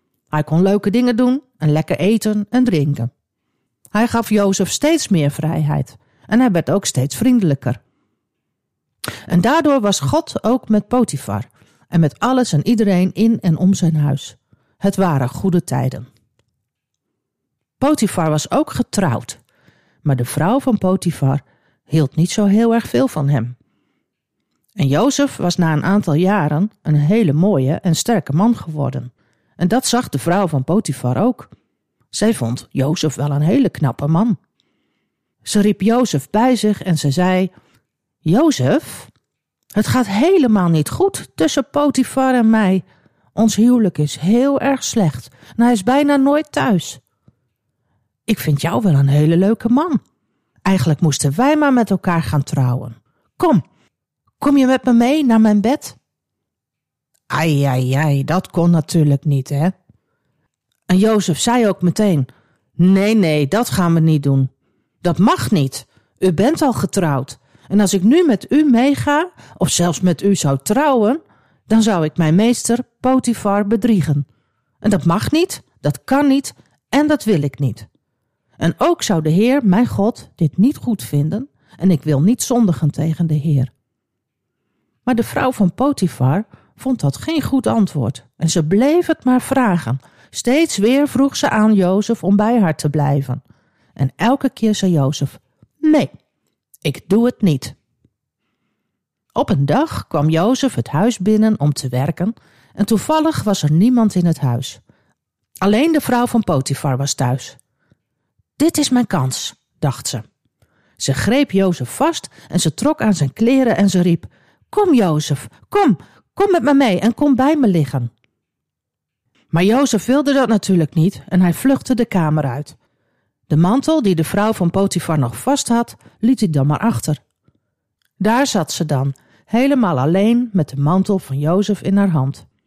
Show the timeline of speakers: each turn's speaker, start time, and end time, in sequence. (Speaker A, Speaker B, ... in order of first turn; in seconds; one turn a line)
Speaker A: 0.3-3.1
Speaker A: 3.9-7.8
Speaker A: 9.3-16.1
Speaker A: 17.8-19.4
Speaker A: 20.0-23.6
Speaker A: 24.8-31.5
Speaker A: 32.1-34.4
Speaker A: 35.4-37.5
Speaker A: 38.2-39.1
Speaker A: 39.7-47.0
Speaker A: 48.3-50.0
Speaker A: 50.6-53.6
Speaker A: 54.4-56.0
Speaker A: 57.3-59.7
Speaker A: 60.9-64.5
Speaker A: 65.0-74.2
Speaker A: 74.8-77.9
Speaker A: 78.6-83.7
Speaker A: 85.1-93.4
Speaker A: 94.0-96.1
Speaker A: 96.8-97.8
Speaker A: 99.3-104.8
Speaker A: 105.6-107.6
Speaker A: 108.6-110.2
Speaker A: 111.0-118.1
Speaker A: 119.5-122.8
Speaker A: 123.5-127.2
Speaker A: 128.2-132.5